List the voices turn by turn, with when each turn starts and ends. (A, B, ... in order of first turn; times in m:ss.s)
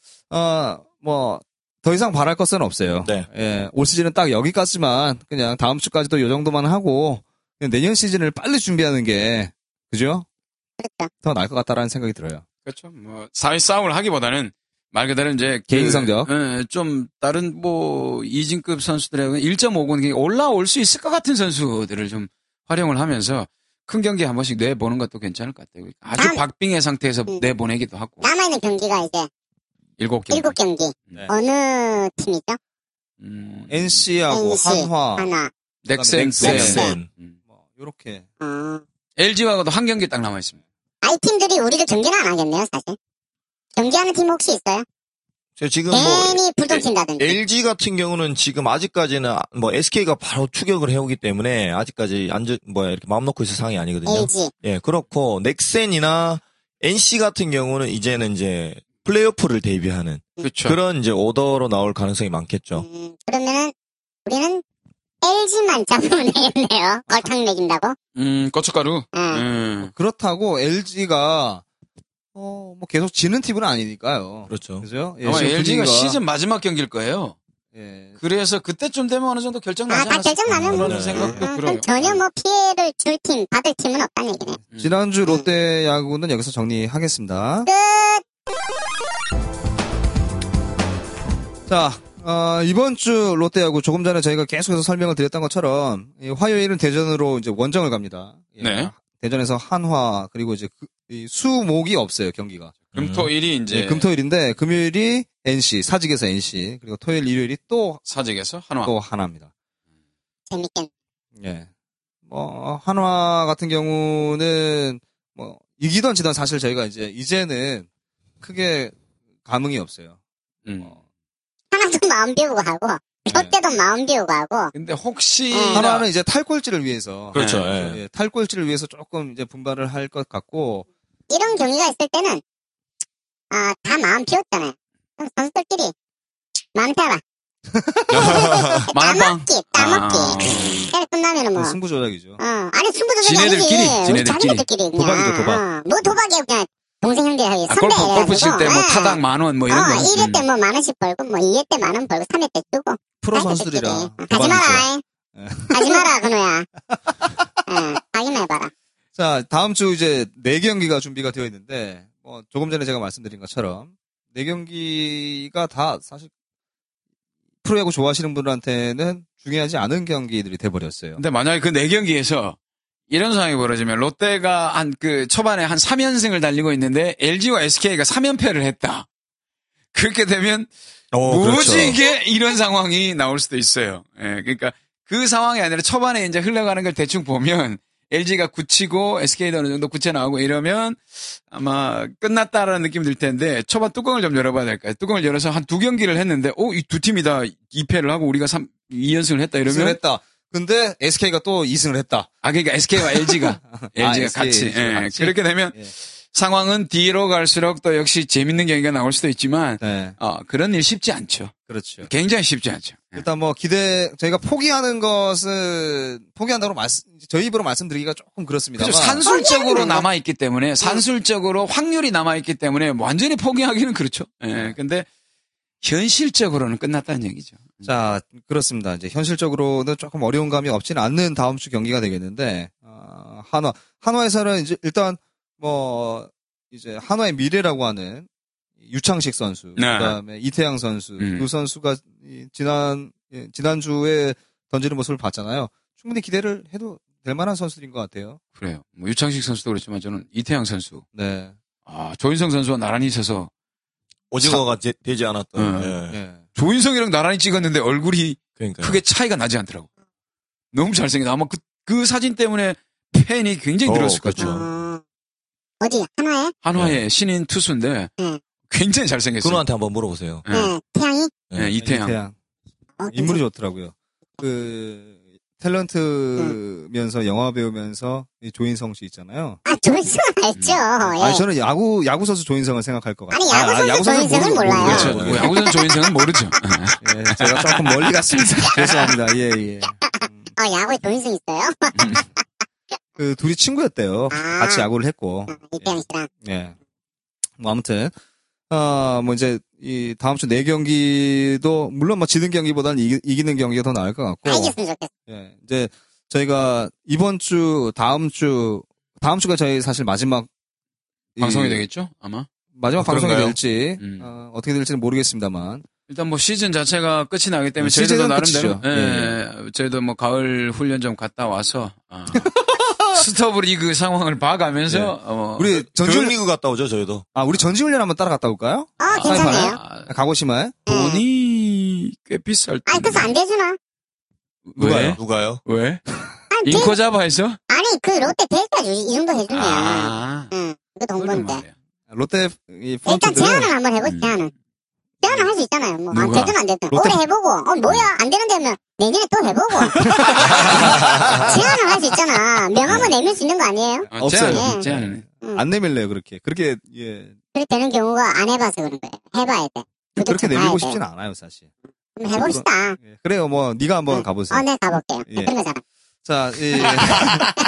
0:00.3-0:10.2 A
0:10.8-0:11.1 B
0:11.2-0:12.4 A
0:12.6-0:28.2 C
0:15.7-0:16.3 A
0:26.2-0:26.4 B
0:28.2-0:29.3 B
0:30.0-0:30.6 C
0:30.3-0:32.6 B
0:33.2-0:34.0 C
0:33.7-0:35.3 A
0:34.3-0:35.5 B
0:35.8-0:37.4 C
0:36.0-0:36.8 A
0:36.4-0:37.1 D
0:36.6-0:37.0 B
0:37.5-0:38.2 A
0:38.4-0:38.8 B
0:39.2-0:40.6 C
0:41.0-0:43.0 B
0:43.8-0:44.8 B
0:45.6-1:02.8 D
0:45.9-0:47.4 B
0:54.0-0:54.5 B
1:00.4-1:00.8 C
1:02.7-1:03.7 B
1:04.2-1:04.6 B
1:05.2-1:08.0 B
1:08.2-1:09.9 C
1:09.1-1:09.4 B
1:09.8-1:11.6 A
1:12.3-1:16.2 A
1:14.5-1:14.8 D
1:15.2-1:17.4 C
1:17.7-1:18.2 A
1:18.2-1:22.2 C
1:19.9-1:24.6 B
1:20.7-1:21.3 D
1:24.6-1:27.7 A
1:27.7-1:28.2 B
1:31.7-1:48.0 A
1:38.6-1:38.9 C
1:42.9-1:44.1 C
1:48.1-1:48.9 C
1:48.8-1:49.5 A
1:50.5-1:50.9 B
1:51.4-1:51.7 A
1:52.2-1:57.9 A
1:58.4-2:00.2 A
2:00.6-2:00.9 C
2:01.7-2:04.7 B
2:03.2-2:03.6 A
2:04.7-2:06.1 C
2:05.5-2:05.8 B
2:05.7-2:10.8 A
2:07.3-2:08.0 D
2:07.3-2:07.7 C
2:11.3-2:12.4 B
2:13.5-2:15.9 B
2:16.7-2:17.2 B
2:17.8-2:18.5 A
2:18.1-2:18.9 D
2:18.2-2:21.8 B
2:18.2-2:20.9 C
2:21.5-2:22.4 A
2:22.4-2:35.0 B
2:23.2-2:24.6 C
2:24.9-2:25.6 A
2:27.7-2:30.4 C
2:33.2-2:36.1 A
2:35.7-2:36.7 B
2:36.9-2:37.4 A
2:37.6-2:38.7 B
2:39.2-2:46.3 A
2:47.6-2:51.2 A
2:51.2-2:52.6 C
2:53.1-2:59.1 C
2:59.9-3:00.7 C
3:01.1-3:02.0 D
3:01.2-3:20.0 C
3:01.4-3:02.0 A
3:19.6-3:22.3 A
3:22.4-3:33.2 C
3:23.3-3:25.9 A
3:29.8-3:30.2 A
3:31.7-3:32.1 A
3:33.1-3:39.3 A
3:38.8-3:45.1 C
3:39.2-3:40.0 B
3:45.8-3:47.9 C
3:47.8-3:58.3 A
3:58.8-4:08.4 A
3:59.8-4:00.2 C
4:01.2-4:01.5 C
4:08.6-4:11.0 C
4:11.1-4:11.5 A
4:11.9-4:13.5 C
4:14.3-4:16.2 D
4:15.6-4:16.0 C
4:16.1-4:16.4 A
4:16.5-4:19.9 C
4:18.6-4:19.0 D
4:20.7-4:24.6 C
4:23.8-4:24.6 D
4:24.4-4:25.0 B
4:25.8-4:26.5 B
4:26.6-4:28.1 C
4:28.7-4:29.6 C
4:29.4-4:30.4 D
4:30.4-4:30.7 C
4:30.5-4:31.3 B
4:31.5-4:32.2 C
4:31.8-4:32.3 A
4:33.0-4:33.4 B
4:33.1-4:39.6 A
4:39.6-4:41.4 B
4:40.6-4:40.8 C
4:41.2-4:45.5 A
4:43.3-4:45.9 B
4:44.8-4:49.1 C
4:44.9-4:45.4 D
4:47.0-4:50.5 A
4:50.6-4:52.2 B
4:52.0-4:52.2 C
4:53.2-4:55.6 A
4:54.3-4:54.8 B
4:55.5-4:56.3 B
4:56.4-4:56.7 A
4:57.6-4:58.1 A
4:58.7-5:04.7 A
5:04.4-5:05.1 B
5:05.3-5:10.5 A
5:11.4-5:11.8 A
5:11.4-5:12.5 C
5:12.7-5:15.8 A
5:13.0-5:13.6 D
5:14.0-5:14.3 C
5:16.1-5:22.6 C
5:17.8-5:19.4 A
5:22.3-5:23.2 A
5:23.1-5:25.7 C
5:24.9-5:26.3 A
5:25.7-5:27.2 D
5:27.3-5:30.7 A
5:29.0-5:29.8 B
5:29.1-5:30.1 C
5:30.9-5:33.3 C
5:30.9-5:31.2 B
5:32.9-5:33.8 B
5:34.7-5:36.0 C
5:34.8-5:35.2 A
5:35.2-5:35.6 D
5:36.5-5:37.0 B
5:36.6-5:37.6 C
5:37.7-5:41.6 B
5:39.5-5:40.5 C
5:41.2-5:41.7 C
5:42.1-5:43.7 A
5:43.0-5:44.5 B
5:44.0-5:44.4 C
5:45.2-5:50.8 B
5:46.1-5:46.6 C
5:46.9-5:47.2 A
5:47.8-5:48.1 C
5:49.9-5:51.0 C
5:50.0-5:51.5 A
5:51.0-5:51.4 D
5:51.4-5:54.8 B
5:52.8-5:53.1 C
5:54.1-5:57.4 A
5:54.1-5:55.2 C
5:57.5-6:01.0 B
6:00.2-6:01.7 A
6:02.2-6:03.0 B
6:02.2-6:04.6 A
6:04.1-6:05.8 B
6:05.2-6:05.5 A
6:06.2-6:07.5 A